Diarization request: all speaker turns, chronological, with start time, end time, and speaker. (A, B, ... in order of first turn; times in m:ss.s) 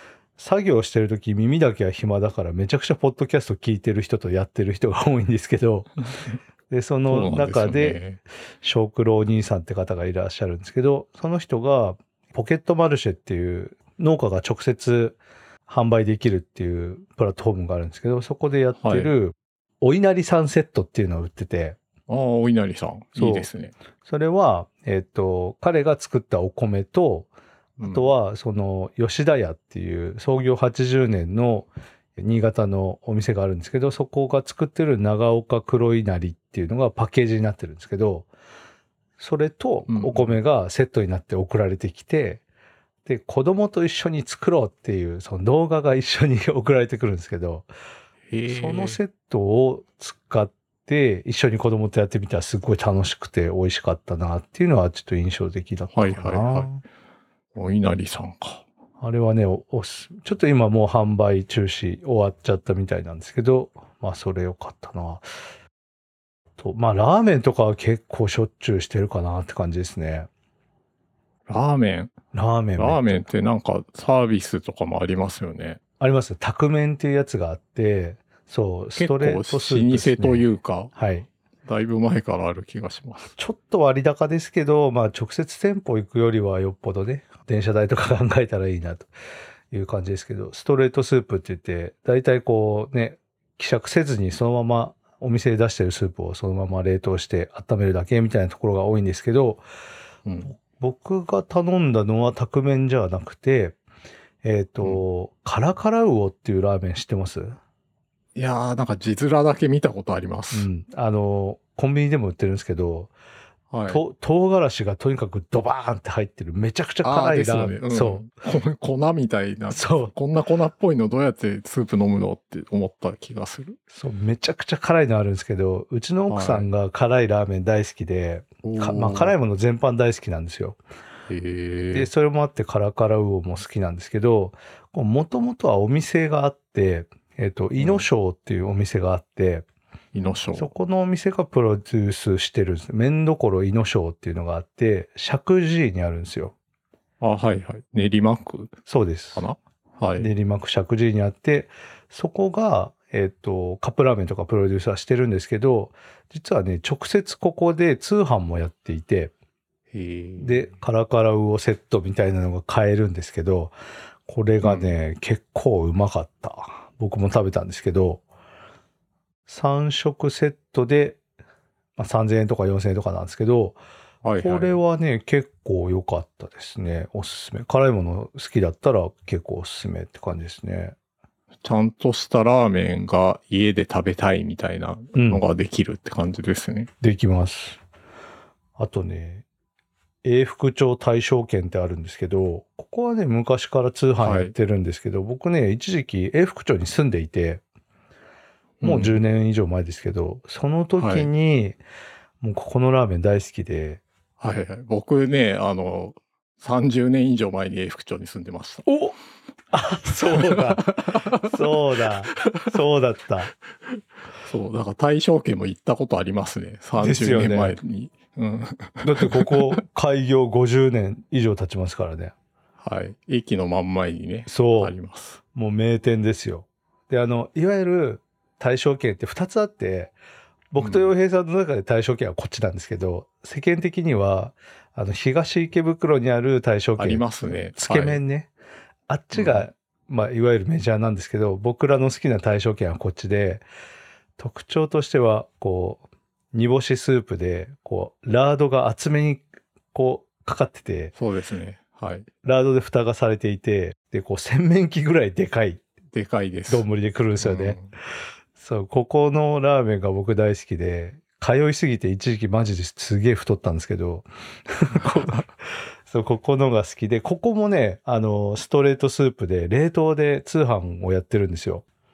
0:00.4-0:05.9 A
0:06.7-0:08.0 A
0:07.1-0:08.2 B
0:08.6-0:21.8 A
0:18.8-0:19.1 B
0:22.1-0:23.7 B
0:23.2-0:23.5 A
0:24.0-0:27.3 A
0:27.8-0:28.1 B
0:27.8-0:38.3 A
0:39.2-0:42.4 A
0:39.9-0:40.4 B
0:43.0-0:47.7 A
0:48.3-0:49.0 B
0:48.5-0:56.8 A
0:55.9-0:56.7 B
0:57.5-0:58.6 B
0:59.0-1:05.2 A
1:06.6-1:10.3 A
1:11.5-1:12.1 B
1:12.3-1:13.3 A
1:12.8-1:15.8 B
1:16.0-1:21.3 A
1:19.0-1:20.9 B
1:21.6-1:23.3 B
1:23.4-1:29.1 A
1:29.7-1:39.6 A
1:40.2-1:40.5 B
1:40.4-1:43.8 A
1:44.4-1:47.6 A
1:48.3-1:50.7 B
1:50.5-1:53.1 A
1:53.7-1:54.0 B
1:53.9-1:58.2 A
1:57.0-2:03.8 B
1:59.7-2:00.1 A
2:03.9-2:10.8 A
2:06.3-2:06.7 B
2:08.6-2:09.3 B
2:11.3-2:12.1 B
2:11.9-2:19.6 A
2:17.8-2:18.0 B
2:20.1-2:20.7 B
2:20.5-2:26.5 A
2:27.2-2:28.8 B
2:28.8-2:29.4 A
2:29.3-2:30.3 B
2:30.2-2:39.3 A
2:39.9-2:40.8 B
2:40.4-2:43.7 A
2:44.3-2:48.2 A
2:44.6-2:44.9 B
2:49.5-2:51.2 A
2:52.0-2:53.8 A
2:54.2-2:54.8 B
2:54.4-3:01.0 A
3:01.6-3:06.9 B
3:05.1-3:05.4 A
3:07.0-3:07.8 A
3:08.8-3:09.4 A
3:10.2-3:17.6 A
3:14.2-3:14.5 B
3:18.8-3:19.2 B
3:18.8-3:21.8 A
3:21.0-3:21.3 B
3:22.4-3:24.0 A
3:24.4-3:28.8 B
3:28.8-3:29.2 A
3:29.7-3:33.5 A
3:30.3-3:32.7 B
3:33.9-3:39.8 B
3:37.0-3:37.8 A
3:39.0-3:42.3 A
3:42.8-3:45.4 B
3:44.5-3:44.9 A
3:45.5-3:50.1 A
3:50.7-3:58.5 A
3:50.8-3:51.1 B
3:57.0-3:58.2 B
3:59.1-4:03.6 A
3:59.3-3:59.6 B
4:04.4-4:11.1 A
4:11.1-4:12.3 B
4:12.4-4:15.8 A
4:16.1-4:16.8 B
4:16.7-4:17.8 A
4:17.4-4:17.9 B
4:18.6-4:31.8 A
4:25.0-4:25.4 B